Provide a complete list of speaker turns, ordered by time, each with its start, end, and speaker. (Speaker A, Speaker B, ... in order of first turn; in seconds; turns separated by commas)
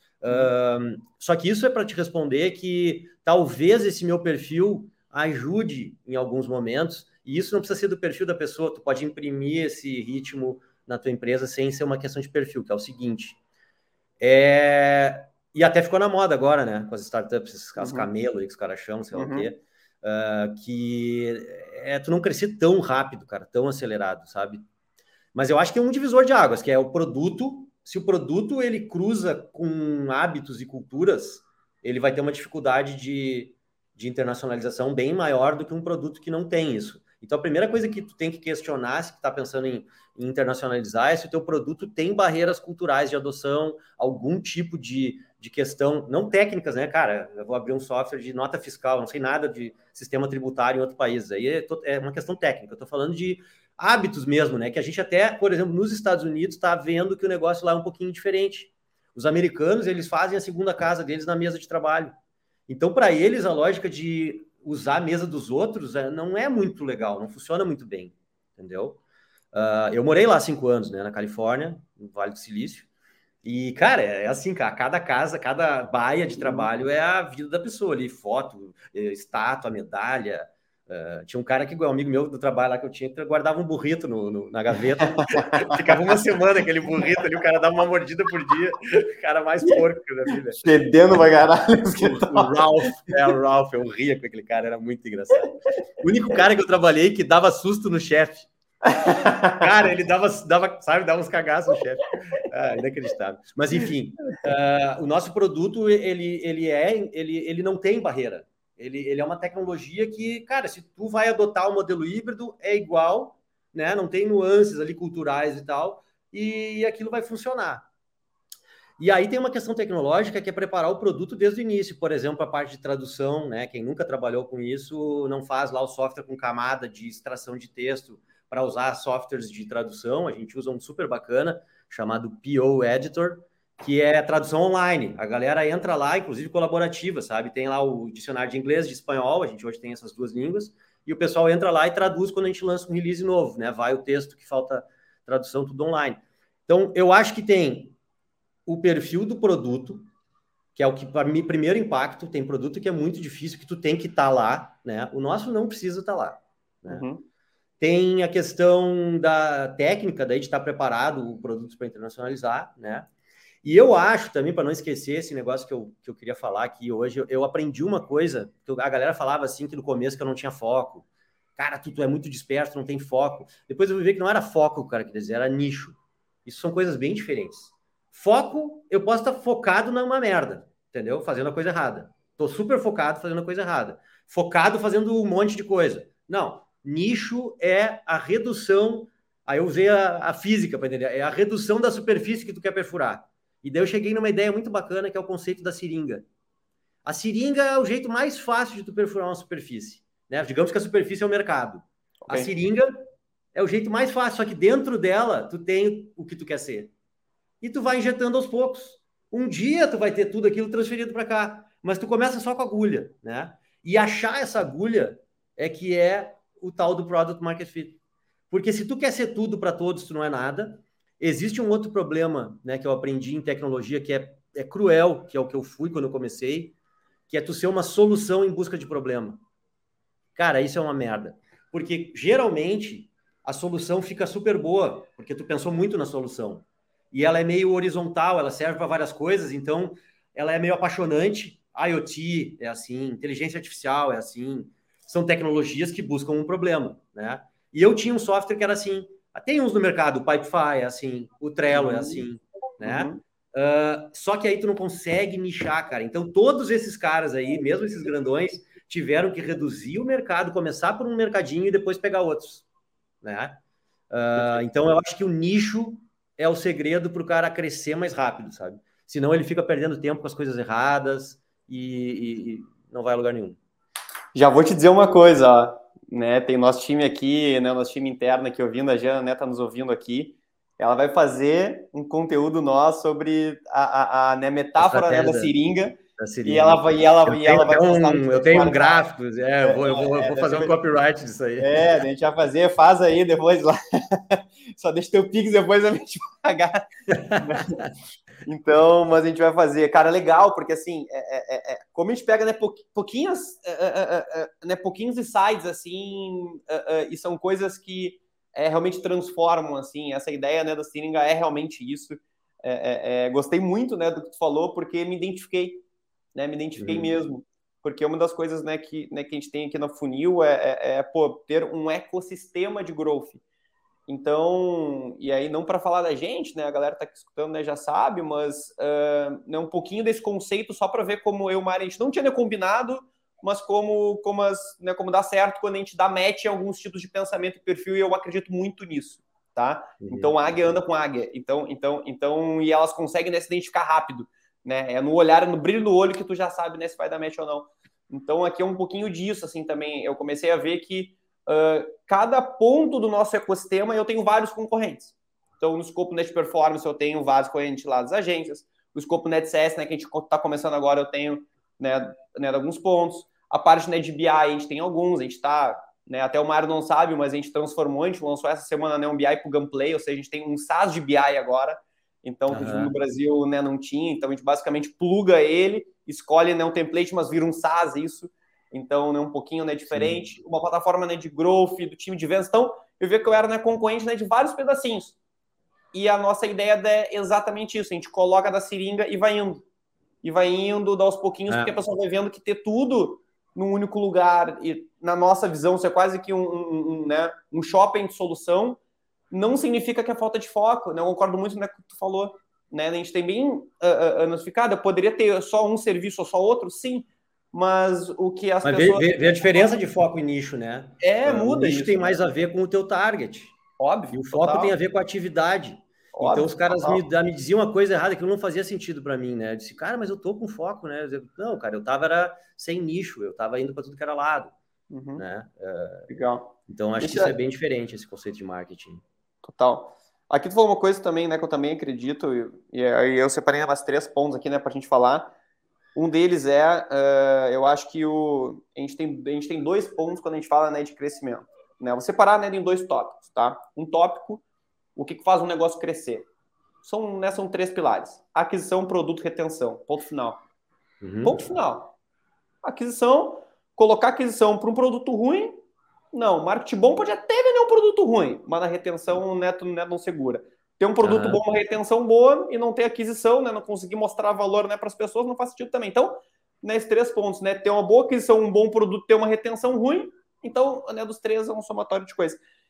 Speaker A: 0.2-13.4, Speaker A: 14.2-24.6, Speaker B: 17.8-18.1, Speaker B: 19.1-19.5, Speaker A: 25.3-62.1, Speaker A: 62.7-69.0, Speaker A: 69.5-72.9, Speaker A: 73.4-90.7, Speaker B: 76.4-76.7, Speaker B: 85.2-86.0, Speaker B: 90.6-92.5, Speaker A: 92.0-98.5, Speaker B: 98.9-99.7, Speaker A: 99.0-117.8, Speaker A: 119.0-147.9, Speaker A: 148.7-150.1, Speaker A: 150.8-157.0, Speaker B: 156.9-157.2, Speaker A: 157.8-163.1, Speaker A: 163.6-171.1, Speaker A: 171.6-196.2, Speaker A: 197.0-202.9, Speaker A: 203.5-206.9, Speaker A: 207.6-218.0, Speaker A: 218.5-226.8, Speaker A: 227.3-229.4, Speaker A: 230.3-262.6, Speaker B: 251.7-252.2, Speaker B: 252.8-253.2, Speaker A: 263.2-263.6, Speaker A: 264.1-273.6, Speaker B: 274.3-289.1, Speaker A: 284.8-285.5, Speaker A: 286.2-291.7, Speaker B: 289.6-290.7, Speaker B: 291.6-297.8, Speaker A: 297.3-297.6, Speaker B: 298.4-315.8, Speaker B: 316.3-323.4, Speaker A: 316.8-317.1, Speaker B: 324.1-385.2, Speaker A: 340.0-340.7, Speaker A: 372.5-372.9, Speaker A: 379.9-380.3, Speaker B: 385.9-389.6, Speaker B: 390.2-398.8, Speaker B: 399.3-409.1, Speaker A: 408.6-413.6, Speaker B: 411.0-412.2, Speaker B: 413.8-414.7, Speaker A: 414.1-424.5, Speaker B: 416.1-417.0, Speaker B: 424.9-425.2, Speaker A: 425.2-426.1, Speaker B: 426.1-427.3, Speaker A: 426.7-429.0, Speaker B: 429.4-435.3, Speaker B: 435.9-444.4, Speaker B: 444.9-446.3, Speaker B: 446.8-450.4, Speaker A: 451.0-451.4, Speaker B: 451.2-451.9, Speaker B: 452.6-455.6, Speaker B: 456.1-472.4, Speaker A: 461.0-461.4